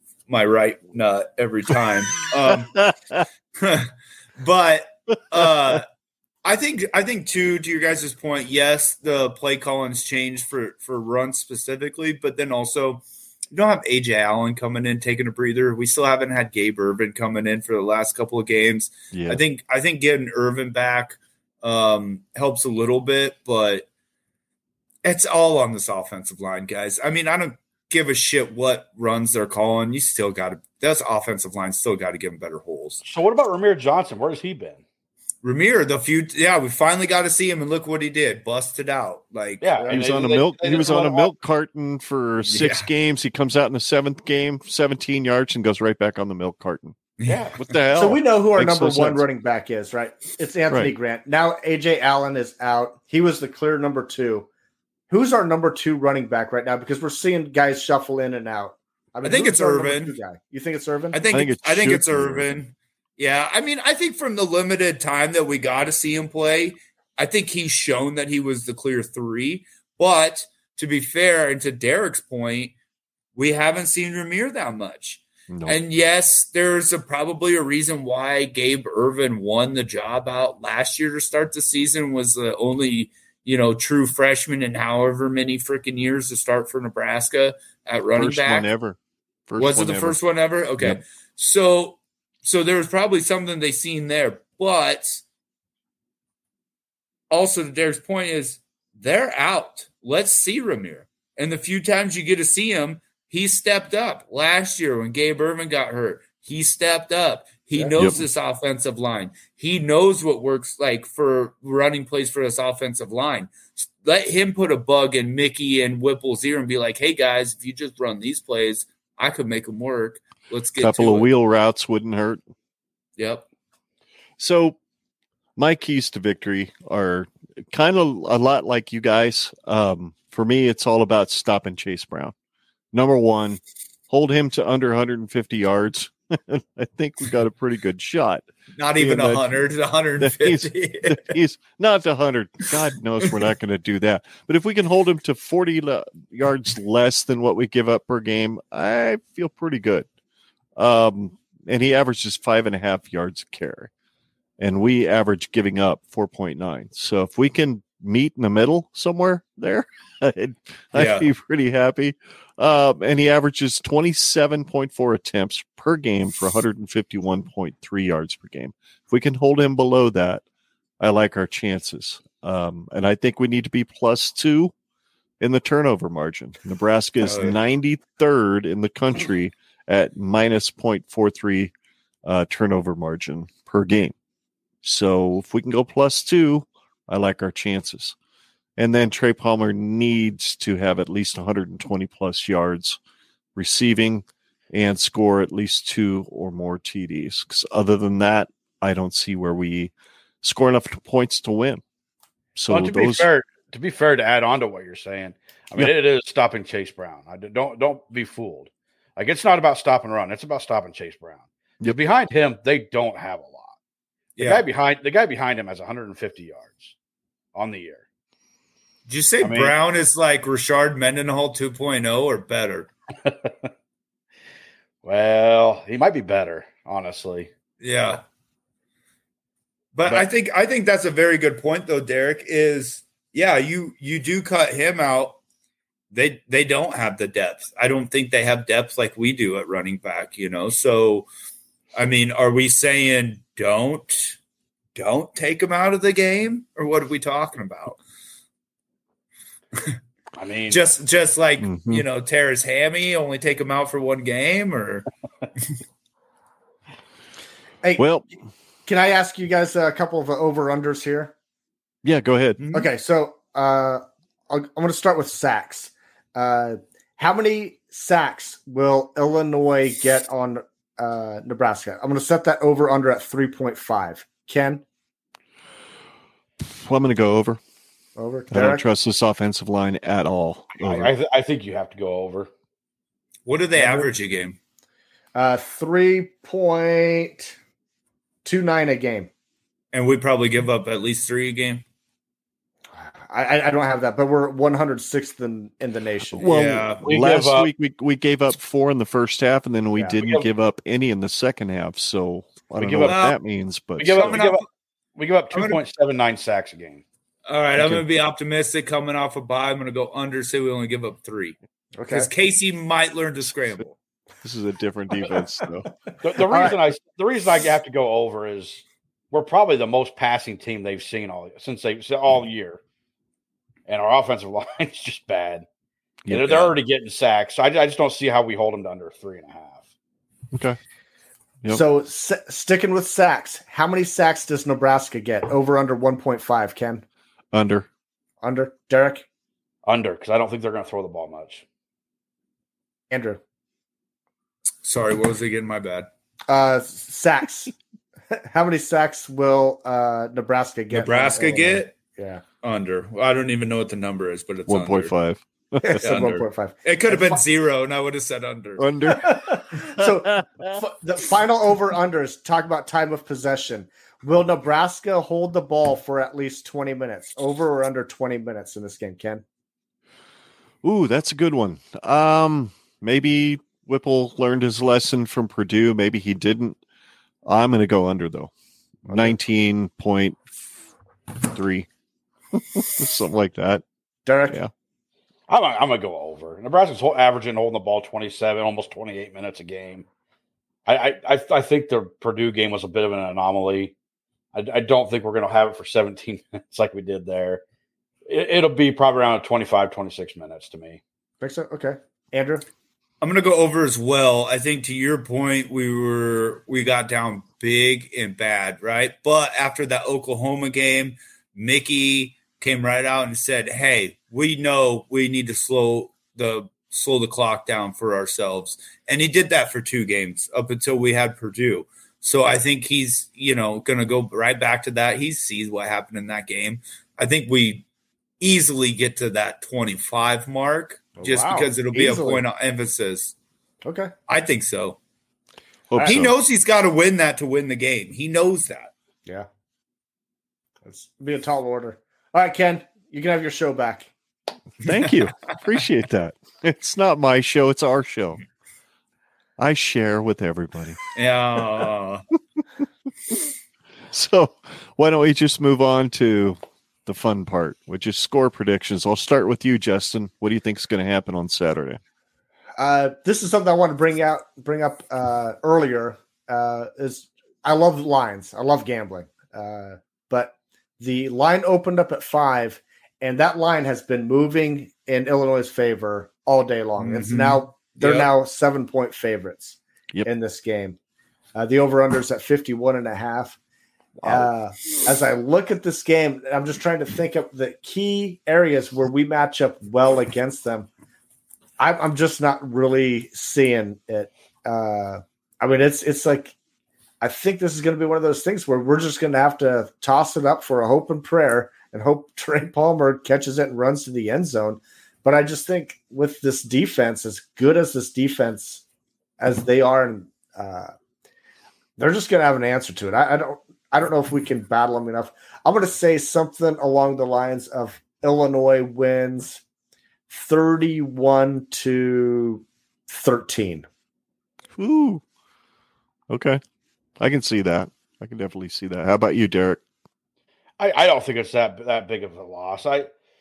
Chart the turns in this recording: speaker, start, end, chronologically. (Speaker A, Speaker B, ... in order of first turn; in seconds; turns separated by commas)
Speaker A: 0.3-2.8, Speaker B: 2.5-3.2, Speaker A: 3.6-5.8, Speaker B: 5.4-5.8, Speaker A: 6.4-23.9, Speaker B: 19.1-19.4, Speaker A: 25.0-33.0, Speaker C: 33.0-34.8, Speaker A: 35.4-39.6, Speaker C: 39.6-41.3, Speaker B: 39.9-47.0, Speaker A: 42.5-42.9, Speaker A: 47.2-47.7, Speaker C: 47.3-47.5, Speaker B: 47.5-49.2, Speaker D: 47.9-54.5, Speaker D: 55.1-61.2, Speaker A: 59.2-60.1, Speaker A: 61.1-72.7, Speaker B: 61.3-62.6, Speaker A: 73.3-88.7, Speaker B: 75.5-75.8, Speaker B: 88.2-89.0, Speaker B: 89.5-90.2, Speaker A: 89.6-95.2, Speaker A: 97.3-121.3, Speaker B: 120.8-122.4, Speaker A: 123.2-123.4, Speaker B: 124.4-124.8, Speaker B: 125.6-132.3, Speaker B: 132.9-139.6, Speaker A: 138.8-141.3, Speaker B: 140.2-150.1, Speaker B: 150.8-153.9, Speaker B: 154.6-170.4, Speaker A: 160.9-161.3, Speaker B: 171.0-174.7, Speaker B: 175.4-181.7, Speaker A: 177.2-177.6, Speaker B: 182.2-184.1, Speaker B: 184.8-188.2, Speaker B: 188.8-193.0, Speaker B: 193.6-201.8, Speaker B: 202.6-203.3, Speaker C: 202.7-213.7, Speaker A: 214.3-214.6, Speaker C: 214.4-216.9, Speaker C: 217.5-218.0, Speaker A: 219.1-222.9, Speaker C: 219.4-219.8, Speaker C: 223.2-223.7, Speaker C: 225.0-227.5, Speaker A: 227.8-228.2, Speaker A: 229.9-235.4, Speaker A: 236.1-241.3, Speaker A: 241.9-244.4, Speaker A: 244.9-248.0, Speaker C: 250.4-250.8, Speaker A: 250.7-255.1, Speaker B: 251.6-252.0, Speaker B: 258.0-258.3, Speaker D: 258.9-261.3, Speaker B: 262.0-262.6, Speaker A: 262.6-262.9, Speaker D: 262.7-274.8, Speaker B: 276.6-277.6, Speaker D: 278.1-278.8, Speaker B: 278.5-281.1, Speaker C: 280.8-282.5, Speaker A: 283.4-284.6, Speaker D: 283.8-284.1, Speaker D: 285.3-287.6, Speaker D: 288.4-289.3, Speaker A: 289.9-291.8, Speaker D: 292.9-296.6, Speaker A: 296.4-297.0, Speaker B: 296.4-304.4, Speaker C: 297.0-297.7, Speaker C: 300.2-300.5, Speaker C: 302.8-303.2, Speaker A: 303.0-303.4, Speaker C: 304.0-304.6, Speaker A: 304.1-304.6, Speaker C: 305.1-307.0, Speaker A: 305.5-305.8, Speaker A: 307.5-311.6, Speaker B: 307.8-308.1, Speaker D: 312.0-312.3, Speaker A: 312.1-313.9, Speaker B: 314.4-315.9, Speaker C: 316.2-322.8, Speaker D: 316.4-316.8, Speaker C: 323.9-325.6, Speaker B: 326.2-326.6, Speaker C: 326.3-329.8, Speaker B: 330.5-330.8, Speaker D: 331.7-337.0, Speaker B: 337.5-337.9, Speaker D: 338.4-339.2, Speaker C: 339.9-341.6, Speaker D: 343.1-343.4, Speaker A: 344.8-346.1, Speaker D: 346.5-347.7, Speaker D: 348.3-352.4, Speaker A: 350.9-351.9, Speaker A: 352.6-355.1, Speaker B: 354.7-356.0, Speaker D: 355.8-357.4, Speaker A: 356.0-358.8, Speaker B: 358.8-360.8, Speaker D: 359.1-369.4, Speaker B: 370.8-376.8, Speaker B: 377.4-378.5, Speaker D: 379.1-379.4, Speaker B: 379.1-380.8, Speaker B: 381.4-381.9, Speaker B: 382.5-383.8, Speaker D: 384.2-384.6, Speaker C: 385.5-390.1, Speaker C: 390.9-393.9, Speaker C: 394.5-397.6, Speaker C: 398.3-401.0, Speaker D: 401.4-402.6, Speaker A: 403.2-427.8, Speaker A: 428.4-433.3, Speaker D: 431.2-432.4, Speaker D: 433.8-434.1, Speaker A: 434.3-435.0, Speaker B: 435.9-436.3, Speaker A: 436.0-438.9, Speaker D: 440.8-444.1, Speaker A: 444.8-445.2, Speaker B: 444.8-448.4, Speaker B: 449.6-451.0, Speaker A: 451.1-452.2, Speaker B: 454.1-462.0, Speaker D: 462.8-481.0, Speaker A: 477.0-477.6, Speaker C: 478.0-478.3, Speaker D: 481.6-483.6, Speaker D: 484.2-490.9, Speaker B: 484.2-484.5, Speaker D: 491.8-496.5, Speaker D: 497.2-508.8, Speaker D: 509.4-510.9, Speaker D: 512.0-519.6, Speaker D: 520.3-523.9, Speaker B: 524.8-525.2, Speaker B: 526.3-526.6, Speaker B: 527.2-529.8, Speaker C: 530.8-533.1